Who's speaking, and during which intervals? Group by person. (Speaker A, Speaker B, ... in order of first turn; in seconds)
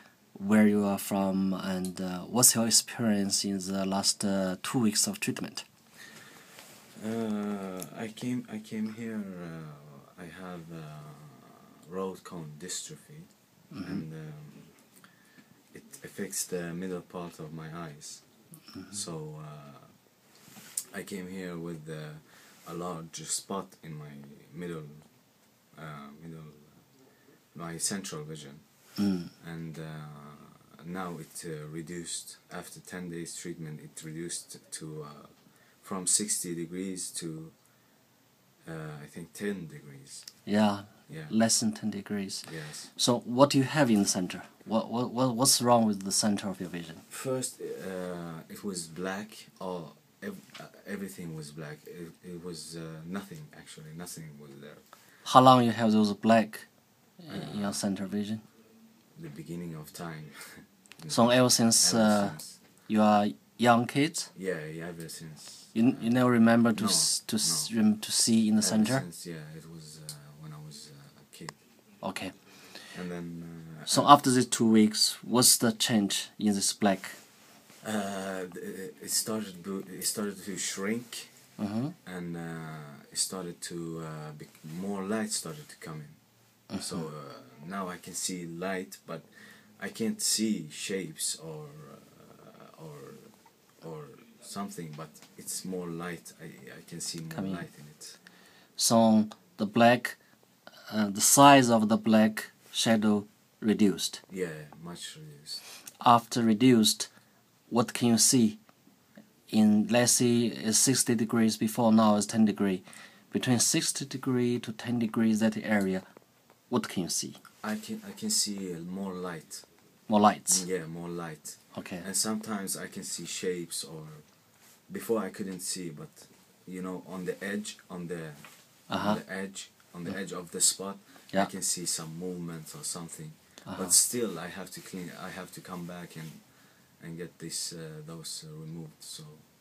Speaker A: 0.3-5.7, 13.7-14.0, 18.7-19.0, 29.0-29.3, 40.5-47.0, 55.2-58.4, 61.1-64.3, 65.7-69.0, 72.0-72.9, 73.9-77.2, 81.6-82.0, 86.7-87.1, 97.3-97.7, 98.8-100.2, 100.9-104.2, 106.0-107.1, 107.7-108.6, 109.5-116.0, 116.7-117.4, 120.1-120.7, 121.7-122.1, 128.9-130.3, 133.6-134.0
Speaker B: 7.0-15.2, 15.7-20.3, 20.9-37.8, 38.6-40.5, 41.1-41.3, 42.4-42.9, 47.1-55.0, 57.3-57.8, 59.1-62.7, 64.3-67.9, 68.6-71.6, 72.9-74.2, 77.8-98.2, 104.3-105.6, 117.6-119.7, 120.5-139.4